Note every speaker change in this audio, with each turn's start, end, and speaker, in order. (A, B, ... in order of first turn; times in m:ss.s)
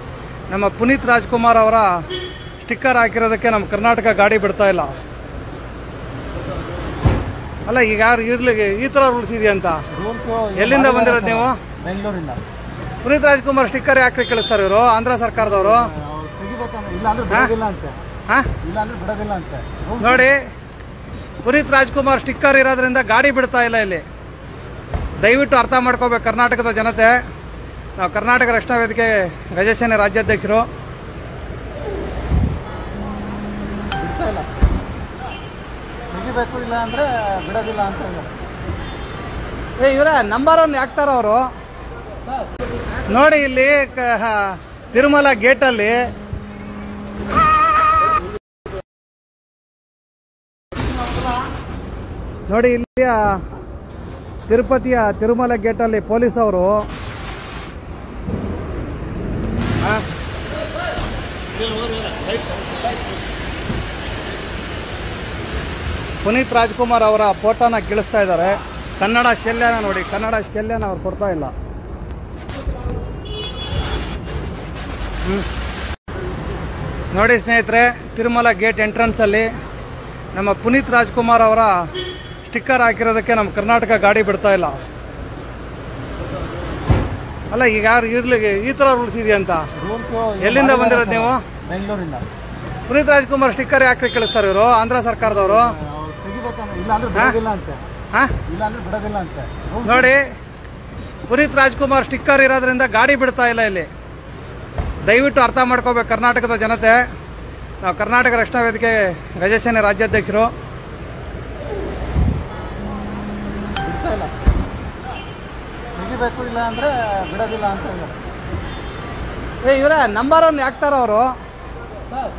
0:00.5-0:01.9 A
0:02.6-0:04.9 A
0:07.6-0:09.8 A
0:09.9-0:12.4 B
0:10.6-0:11.6 A
0:13.0-0:15.9 A
0:15.4-0:18.0 B
0:18.6-0:20.3 B
0:20.0-0:20.4 A
0:21.4-0:24.0 A
0:25.2-0:27.2 A
0:28.0-0:30.6 A
0:33.9-0:34.5 B
0:36.1-0:38.3 B
0:39.8-0:41.4 A
0:43.1-0:46.0 A
0:52.5-0:53.2 A
0:54.5-0:56.8 A
1:06.2-1:11.5 A
1:17.1-1:19.5 A
1:20.3-1:21.7 A
1:22.4-1:24.8 A
1:27.5-1:29.6 A
1:29.8-1:32.2 B
1:30.4-1:31.4 A
1:32.9-1:35.7 A
1:35.2-1:37.8 B
1:38.5-1:40.1 B
1:39.8-1:40.2 A
1:41.3-1:43.9 A
1:45.1-1:47.0 A
1:47.8-1:50.5 A
1:53.8-1:54.3 B
1:56.0-1:58.1 B
1:59.6-2:01.3 A